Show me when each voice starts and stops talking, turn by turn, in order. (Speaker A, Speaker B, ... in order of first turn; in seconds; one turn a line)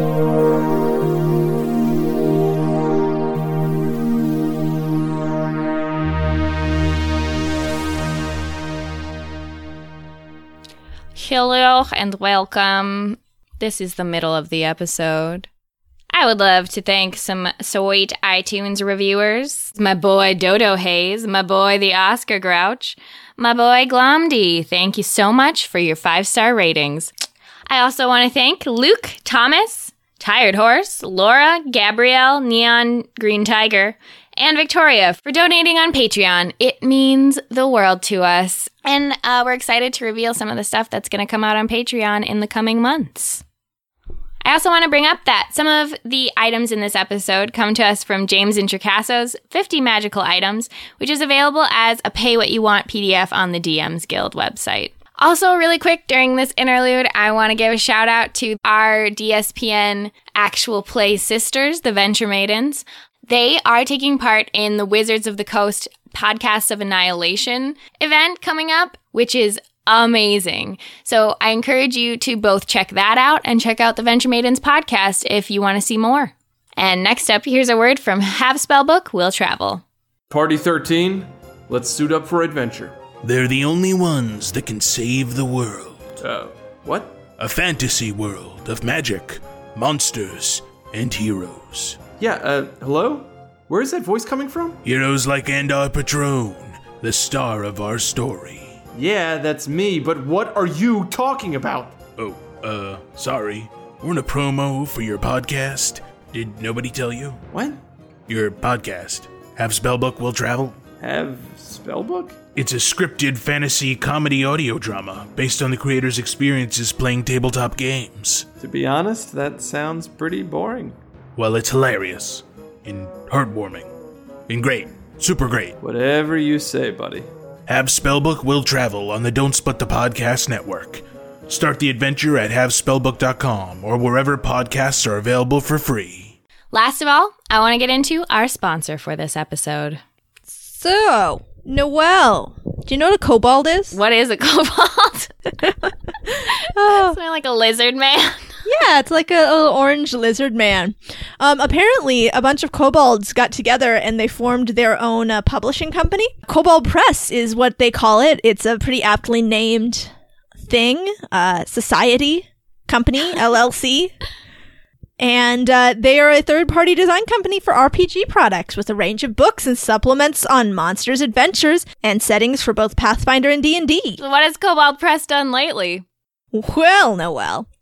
Speaker A: 11.2-15.5
Speaker A: 16.1-27.1
Speaker A: 27.7-43.4
Speaker A: 44.4-79.8
Speaker B: 80.3-83.0
Speaker C: 83.2-86.1
Speaker B: 86.2-87.2
Speaker C: 87.4-92.0
Speaker B: 92.2-94.8
Speaker C: 94.8-98.8
Speaker B: 98.9-102.0
Speaker C: 102.2-107.4
Speaker B: 107.5-107.8
Speaker C: 108.3-110.8
Speaker B: 111.0-112.4
Speaker C: 112.5-118.5
Speaker B: 118.6-121.0
Speaker C: 121.4-123.9
Speaker C: 124.5-125.8
Speaker B: 125.8-127.3
Speaker C: 127.7-136.3
Speaker A: 136.7-140.0
Speaker D: 140.5-144.0
Speaker A: 143.9-145.3
Speaker A: 146.3-148.4
Speaker D: 146.7-147.2
Speaker D: 148.7-160.1
Speaker D: 160.6-164.1
Speaker D: 165.2-174.2
Speaker A: 174.2-176.0
Speaker D: 176.5-177.7